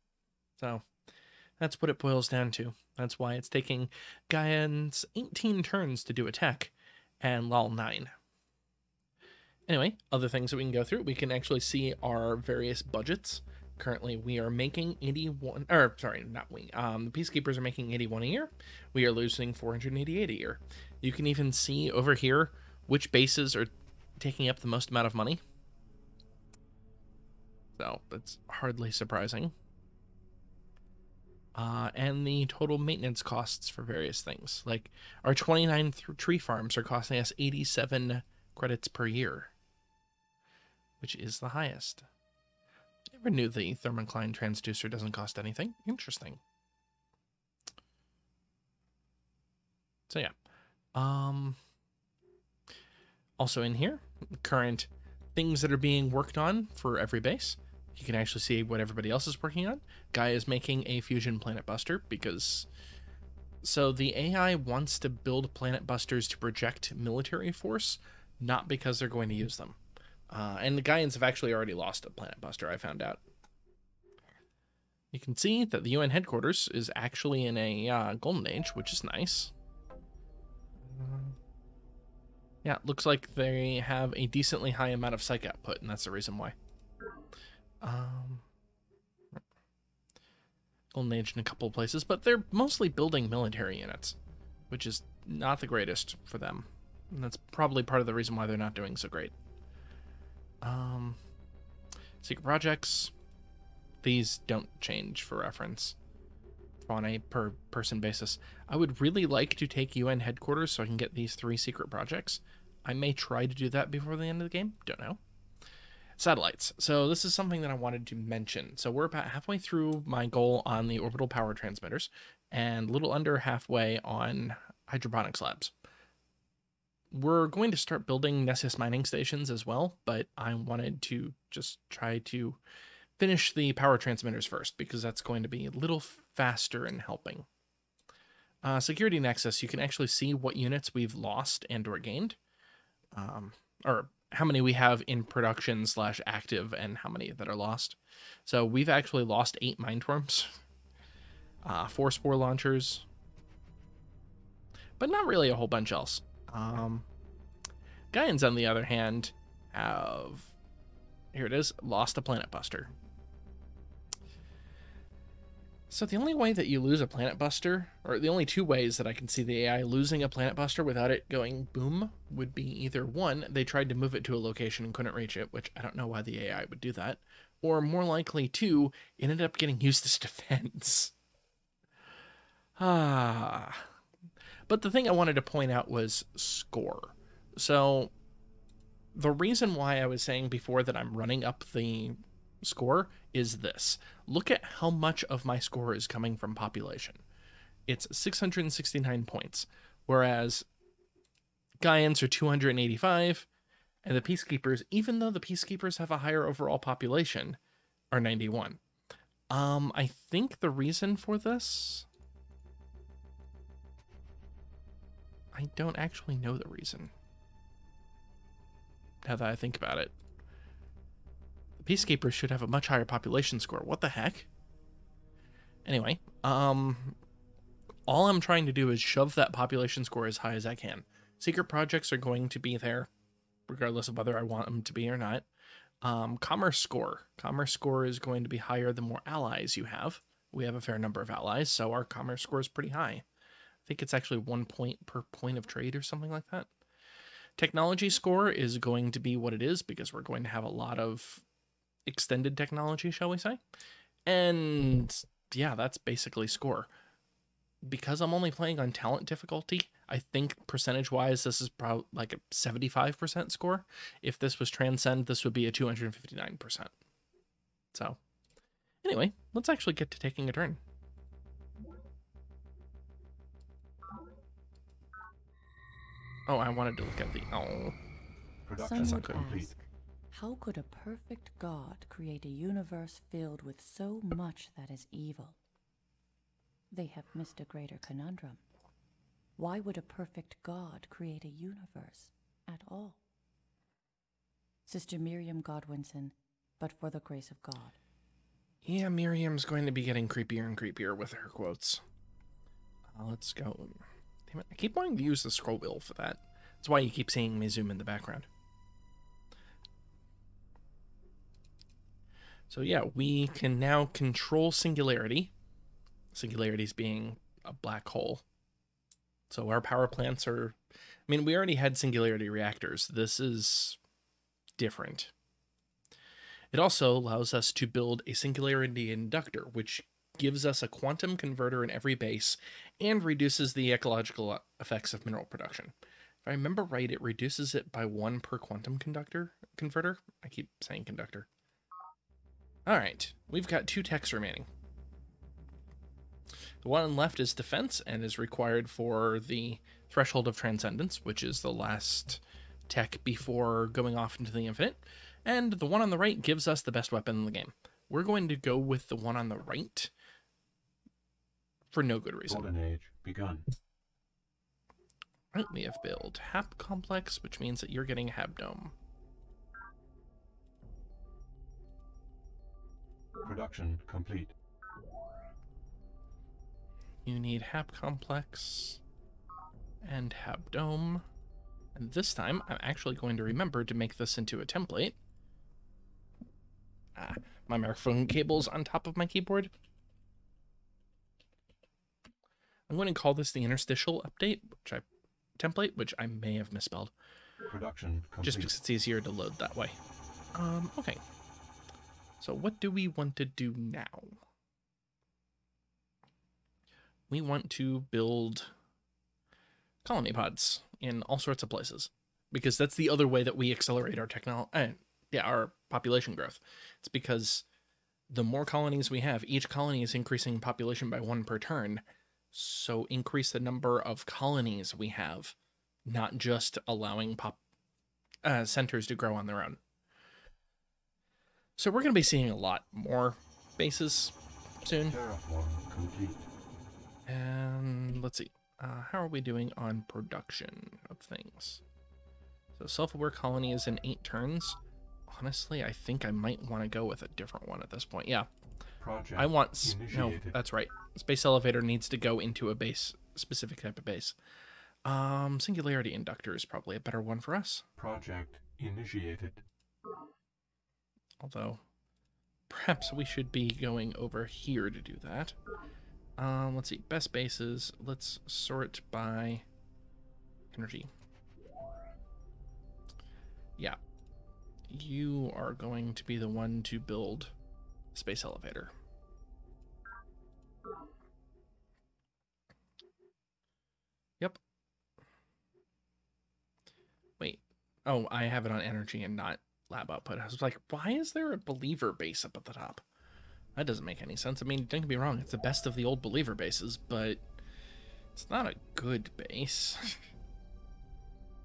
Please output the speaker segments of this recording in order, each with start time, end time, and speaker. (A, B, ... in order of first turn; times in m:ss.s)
0:00.6-0:00.8 A
0:01.6-0:08.1 A
0:09.7-0:25.4 A
0:27.8-0:29.5 A
0:31.6-0:39.5 A
0:41.0-0:42.1 A
0:43.1-0:46.4 A
0:50.1-0:50.3 A
0:50.9-0:51.6 A
0:53.4-1:02.7 A
1:03.6-1:09.8 A
1:10.3-1:13.2 A
1:15.1-1:19.5 A
1:20.8-1:21.4 A
1:22.6-1:26.6 A
1:27.8-1:28.4 A
1:30.9-1:34.2 A
1:34.7-1:39.3 A
1:40.6-1:41.2 A
1:42.2-1:43.1 A
1:44.0-1:46.0 A
1:46.8-1:55.2 A
1:56.2-2:05.7 A
2:07.1-2:12.6 A
2:13.2-2:17.5 A
2:18.6-2:22.4 A
2:23.1-2:30.6 A
2:31.6-2:33.1 A
2:35.0-2:37.1 A
2:38.1-2:40.5 A
2:41.3-2:42.9 A
2:45.9-3:01.1 A
3:02.8-3:03.9 A
3:04.7-3:08.1 A
3:09.1-3:17.2 A
3:17.9-3:20.7 A
3:21.8-3:23.5 A
3:24.0-3:27.6 A
3:28.1-3:28.8 A
3:29.5-3:32.1 A
3:35.5-3:37.1 A
3:39.2-3:40.1 A
3:41.8-3:44.5 A
3:45.9-3:47.2 A
3:48.1-3:53.1 A
3:53.7-3:55.5 A
3:56.0-4:03.2 A
4:03.9-4:06.7 A
4:07.6-4:11.4 A
4:12.1-4:13.6 A
4:14.3-4:16.9 A
4:17.8-4:26.9 A
4:27.9-4:28.2 A
4:29.0-4:30.8 A
4:36.5-4:38.0 A
4:38.6-4:39.7 B
4:38.8-4:45.6 C
4:39.0-4:39.3 A
4:46.9-4:48.6 C
4:49.6-4:53.2 C
4:54.9-4:58.0 C
4:58.8-5:02.0 A
5:03.1-5:08.5 A
5:12.7-5:15.5 A
5:16.3-5:18.4 A
5:19.5-5:20.8 A
5:21.3-5:24.0 A
5:24.8-5:25.3 A
5:26.7-5:41.5 A
5:42.9-5:44.7 A
5:46.8-6:00.1 A
6:01.9-6:02.7 A
6:02.5-6:03.7 B
6:05.5-6:08.9 A
6:13.4-6:14.5 B
6:17.2-6:19.0 A
6:20.0-6:21.3 A
6:22.0-6:25.2 A
6:27.2-6:29.7 A
6:32.9-6:35.1 A
6:35.6-6:37.1 A
6:37.7-6:38.8 B
6:38.4-6:40.0 A
6:40.5-6:41.2 A
6:42.4-6:44.4 A
6:47.3-6:48.7 A
6:50.0-6:57.6 A
6:58.3-7:05.6 A
7:06.1-7:07.6 A
7:08.4-7:09.8 A
7:11.8-7:15.2 A
7:15.0-7:16.5 B
7:17.3-7:21.8 A
7:22.8-7:24.8 A
7:25.3-7:28.5 A
7:29.0-7:30.6 B
7:29.4-7:34.4 A
7:35.0-7:37.8 A
7:38.0-7:39.6 B
7:41.4-7:41.8 A
7:42.7-7:45.6 A
7:46.4-7:49.6 A
7:50.7-7:51.1 A
7:54.9-7:57.5 A
7:58.1-7:58.9 A
8:07.4-8:13.0 A
8:13.8-8:17.4 A
8:18.4-8:20.3 A